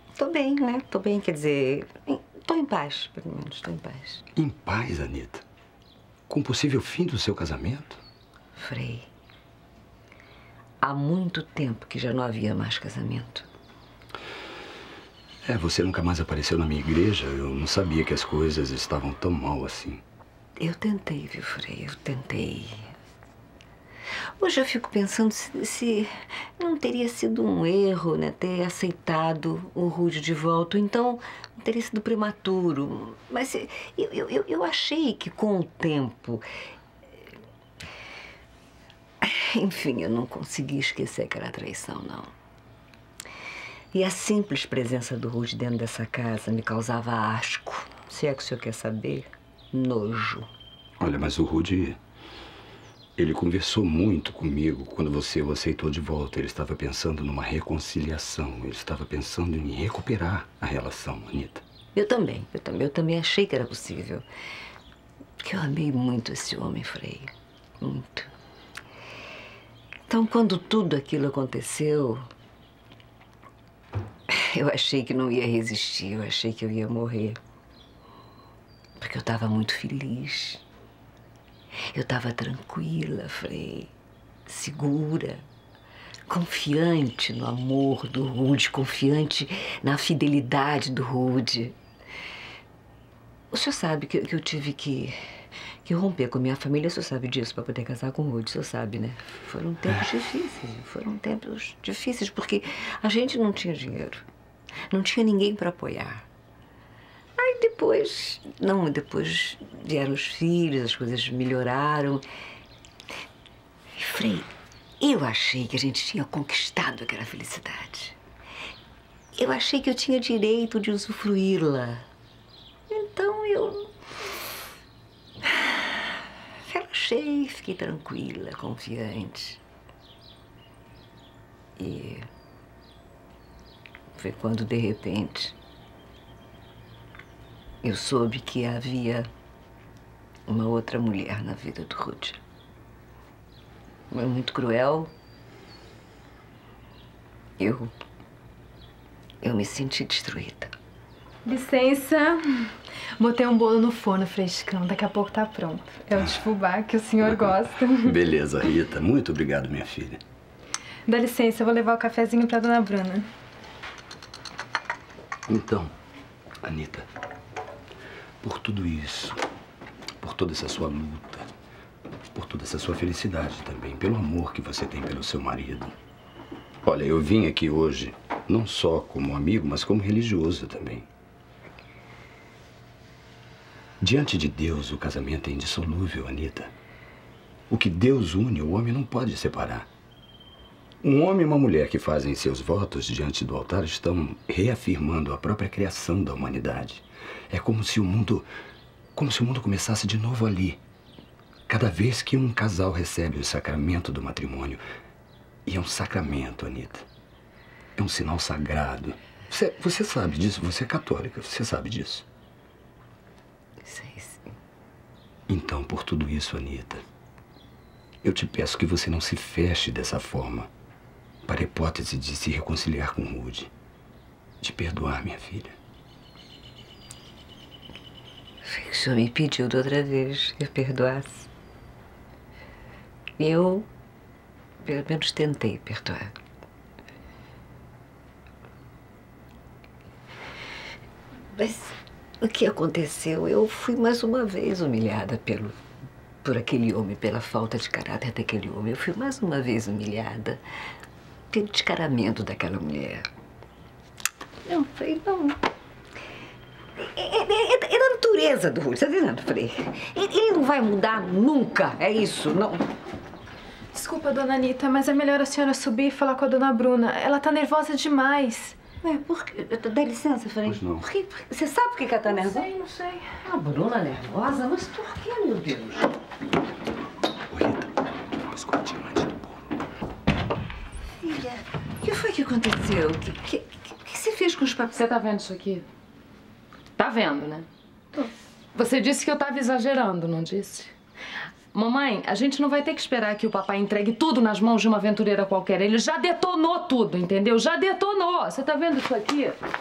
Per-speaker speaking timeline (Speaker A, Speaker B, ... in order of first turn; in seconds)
Speaker A: 0.1-4.2, 8.5-9.1, 10.8-13.5, 20.6-22.9, 24.4-36.4, 39.2-42.3, 43.9-50.5, 61.9-64.2, 65.4-68.3, 70.1-72.2, 74.3-77.4, 79.0-80.6, 81.9-83.9, 84.5-85.4, 86.3-91.7, 93.5-95.2, 95.8-104.2, 104.9-106.3, 107.4-112.2, 113.9-118.2, 119.3-122.0, 122.9-123.9, 126.6-129.6, 131.8-132.2, 134.1-135.5, 137.8-139.3, 140.5-142.4, 144.1-145.1, 147.6-147.9, 149.4-150.7, 213.8-214.5, 228.6-231.5, 233.4-233.9, 234.8-236.3, 241.5-245.8, 246.4-250.6, 251.5-253.2, 254.6-255.6, 257.0-262.8, 269.0-276.1, 281.2-285.0
Speaker B: 4.3-5.4, 6.3-8.0, 15.4-20.0, 51.0-52.0, 53.2-61.6, 157.2-160.2, 165.5-165.9, 166.6-167.1, 168.4-169.4, 170.2-171.5, 172.3-175.9, 176.8-181.1, 184.0-186.7, 187.7-189.9, 191.0-198.5, 199.1-200.8, 201.7-204.8, 205.7-207.1, 207.9-212.2, 215.5-217.0, 218.2-220.7, 221.4-223.7, 224.6-225.8, 270.6-271.1, 277.5-277.9, 278.4-279.4
Speaker C: 151.4-158.1, 161.1-163.3, 263.9-268.8
Speaker D: 284.9-285.9, 287.0-287.7, 288.7-290.9, 291.7-299.6